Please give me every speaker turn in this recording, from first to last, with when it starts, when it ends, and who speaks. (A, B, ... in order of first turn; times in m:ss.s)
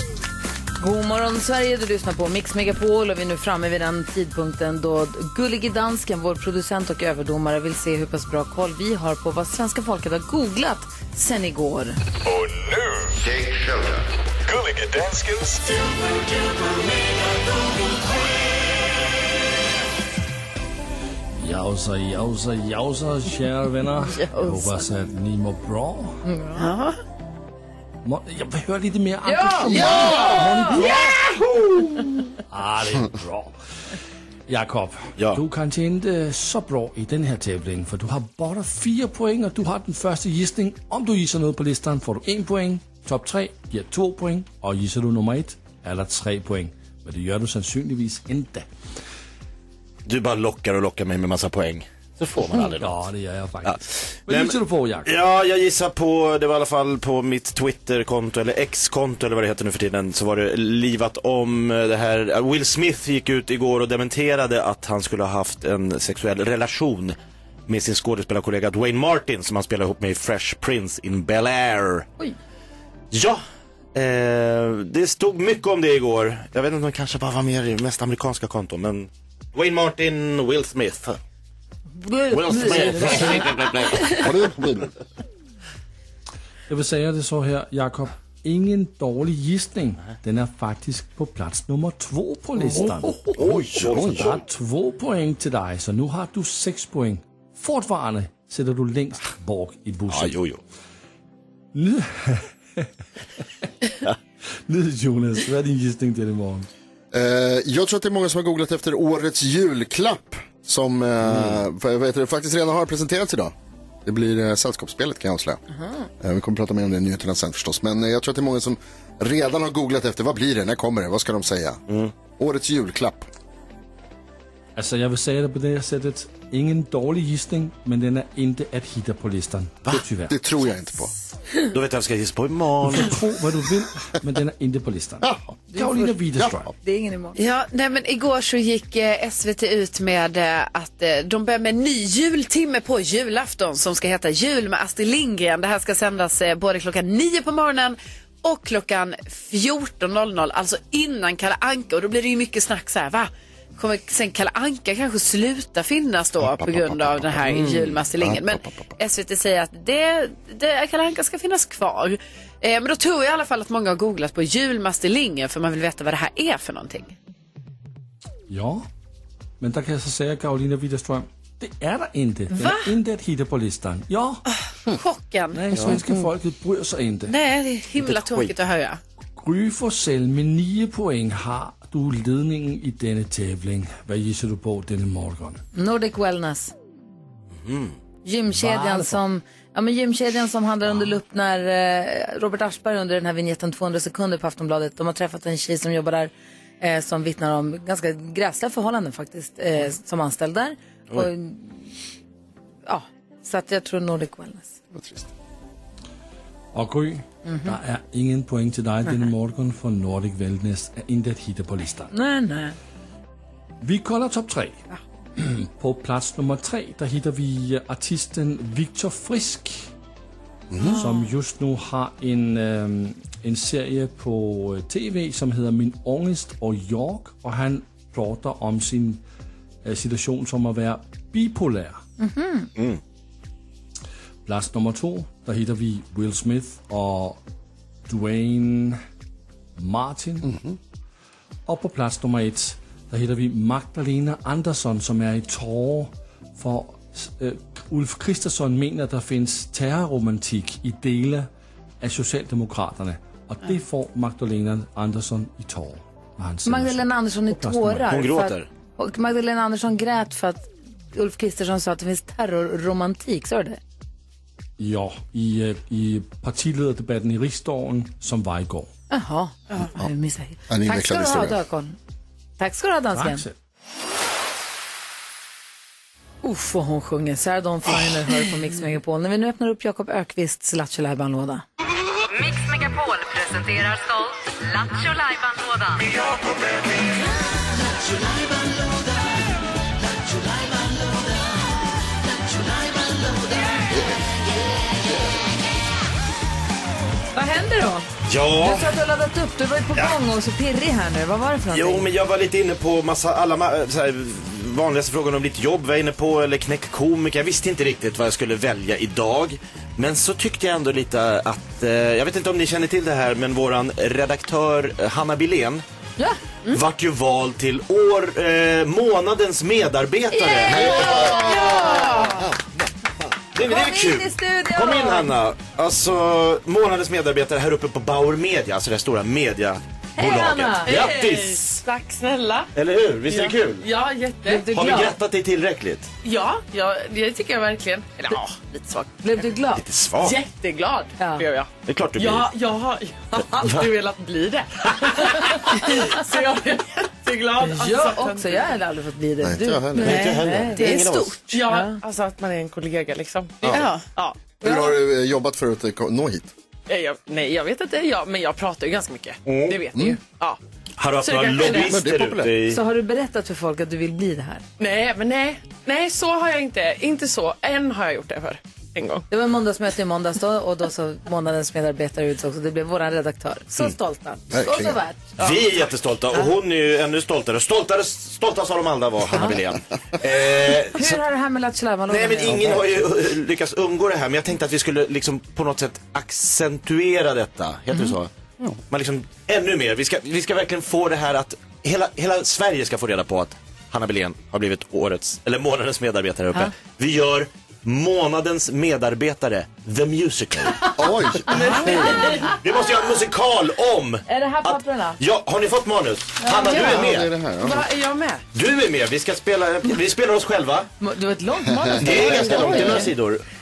0:00.8-0:12.0 A
0:12.3-0:13.2 B
0:14.4-0:15.9 B
0:21.3-0:26.2 C
0:26.2-0:26.7 A
0:26.6-0:27.0 D
0:28.0-0:31.2 C
0:29.2-0:30.8 A
0:29.7-0:30.9 E
0:32.5-0:33.5 C
0:34.5-0:48.7 C
0:50.1-0:53.0 F
0:52.6-0:55.1 C
0:53.6-1:07.2 F
1:07.7-1:12.1 F
1:13.1-1:13.4 F
1:13.9-1:21.2 F
1:22.0-1:24.2 A
1:22.3-1:24.3 F
1:22.9-1:23.4 E
1:24.0-1:24.9 E
1:26.7-1:40.4 C
1:32.8-1:34.4 F
1:33.8-1:34.3 E
1:40.1-1:40.6 F
1:41.7-1:42.9 C
1:44.7-1:46.7 C
1:47.1-1:53.5 E
1:54.0-1:55.6 E
1:56.2-2:01.8 E
2:02.4-2:03.3 E
2:04.8-2:10.4 C
2:10.3-2:11.1 E
2:11.7-2:13.1 F
2:12.8-2:16.7 C
2:15.7-2:16.1 A
2:16.8-2:17.4 A
2:17.4-2:47.1 D
2:36.4-2:39.0 E
2:48.5-2:48.9 C
2:49.6-2:54.4 C
2:52.6-2:52.9 D
2:54.9-2:55.9 D
2:55.5-2:57.3 C
2:57.3-2:59.0 D
2:58.0-2:58.5 F
2:59.4-3:05.6 C
3:05.8-3:06.7 A
3:07.6-3:08.0 F
3:08.2-3:21.8 A
3:08.6-3:09.1 C
3:22.9-3:24.8 A
3:24.9-3:25.3 E
3:26.7-3:32.1 C
3:27.5-3:27.8 A
3:32.1-3:32.8 A
3:33.8-3:34.8 C
3:35.4-3:39.9 C
3:40.7-3:41.0 E
3:40.8-3:49.2 C
3:49.8-3:52.0 C
3:52.2-3:52.7 A
3:54.5-3:57.4 C
3:58.1-3:59.0 C
3:59.8-4:00.5 C
4:00.4-4:00.8 E
4:01.7-4:11.5 C
4:12.0-4:18.1 C
4:16.6-4:23.8 A
4:18.1-4:18.7 F
4:24.8-4:28.9 C
4:29.1-4:32.0 A
4:30.7-4:31.6 E
4:32.6-4:33.5 A
4:33.1-4:33.6 C
4:36.4-4:41.6 A
4:42.3-4:46.0 G
4:57.4-4:58.1 A
4:58.3-4:58.9 F
4:58.6-5:02.1 A
5:01.7-5:15.8 F
5:16.7-5:22.2 F
5:20.3-5:22.3 A
5:20.7-5:22.7 E
5:21.2-5:22.4 D
5:23.6-5:31.8 F
5:23.6-5:25.4 A
5:30.2-5:31.0 A
5:30.8-5:32.7 H
5:32.8-5:33.9 F
5:33.3-5:34.7 H
5:34.4-5:35.2 A
5:34.7-5:36.1 F
5:36.2-5:39.2 H
5:39.2-5:39.8 A
5:39.8-5:40.4 F
5:40.2-5:48.7 H
5:41.2-5:41.5 A
5:41.9-5:42.5 F
5:43.6-5:43.9 F
5:47.6-5:51.0 A
5:49.4-5:50.3 E
5:50.0-5:51.4 F
5:50.8-5:51.4 D
5:51.5-5:54.4 H
5:51.7-5:52.0 A
5:53.7-5:54.0 D
5:54.6-5:56.5 E
5:54.6-5:54.9 A
5:56.9-6:00.6 H
5:59.5-5:59.8 F
6:01.0-6:02.8 F
6:01.2-6:02.0 H
6:01.7-6:02.5 E
6:02.7-6:04.6 A
6:04.8-6:09.3 H
6:09.3-6:15.4 A
6:14.5-6:15.0 E
6:15.4-6:21.2 F
6:20.9-6:22.8 A
6:22.1-6:28.3 F
6:22.5-6:22.8 E
6:28.9-6:40.8 F
6:41.0-6:42.3 E
6:41.5-6:42.3 A
6:41.7-6:42.0 H
6:41.9-6:47.3 F
6:44.3-6:45.2 A
6:46.7-6:47.9 E
6:47.6-6:48.4 H
6:48.5-6:50.9 F
6:51.0-6:53.1 A
6:51.8-6:53.0 E
6:52.0-6:53.4 F
6:52.2-6:52.8 H